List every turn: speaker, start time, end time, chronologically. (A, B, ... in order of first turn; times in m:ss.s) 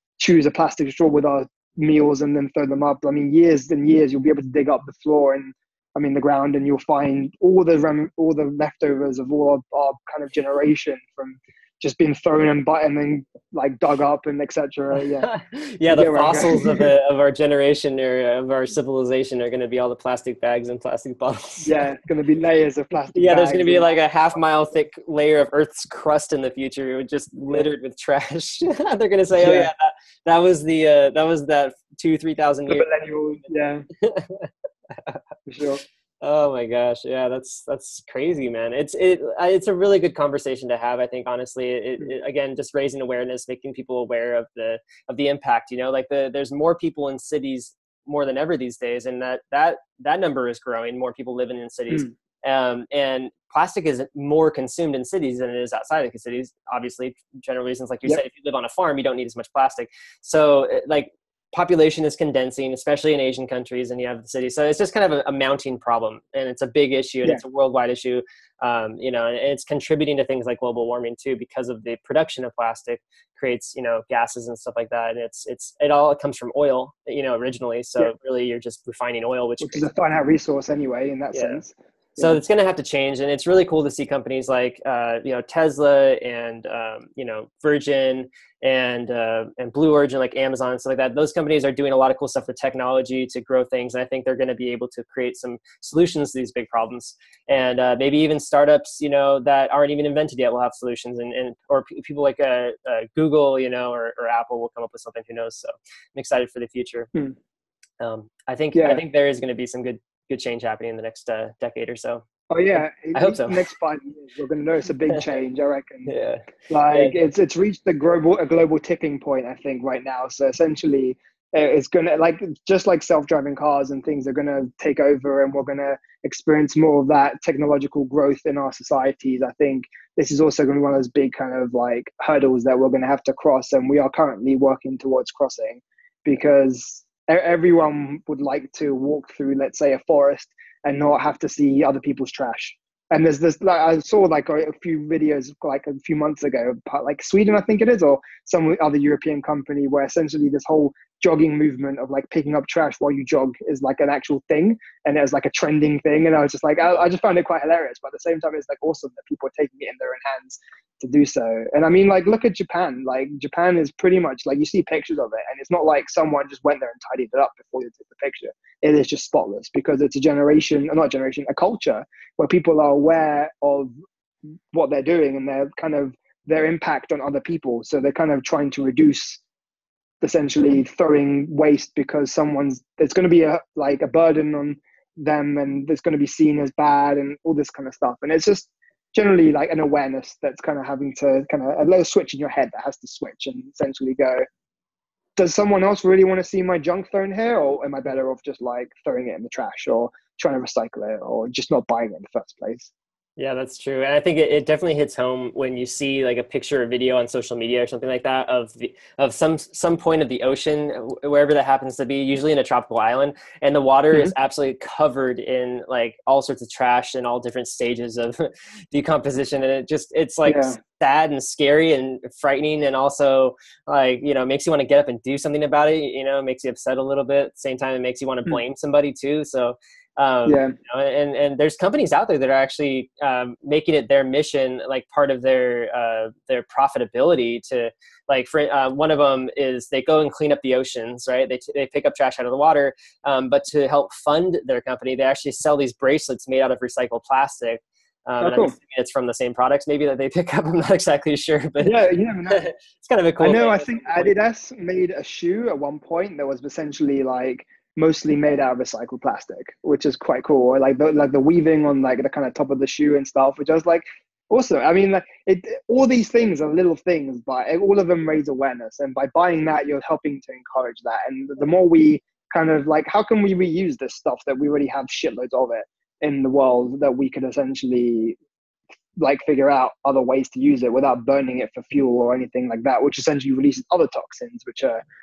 0:00.2-0:15.3 A
0:15.2-0:21.7 B
0:15.9-0:16.9 A
0:21.6-0:24.0 A
0:23.1-0:32.9 B
0:29.4-0:29.7 A
0:32.7-0:33.9 A
0:34.0-0:35.2 B
0:35.5-0:35.8 A
0:36.2-1:19.9 B
1:19.6-1:22.4 A
1:21.3-1:21.6 B
1:22.2-1:47.1 B
1:48.0-1:52.2 B
1:48.7-1:49.0 A
1:52.5-1:56.1 A
1:52.8-1:53.7 B
1:56.1-1:57.2 B
1:56.7-2:53.9 A
2:54.7-2:59.4 A
3:00.2-3:14.4 A
3:15.4-3:22.9 A
3:23.4-4:14.3 B
3:40.4-3:40.8 A
3:50.4-3:50.7 A
4:08.4-4:08.7 A
4:11.8-4:12.7 A
4:13.4-4:38.4 A
4:39.2-4:45.0 A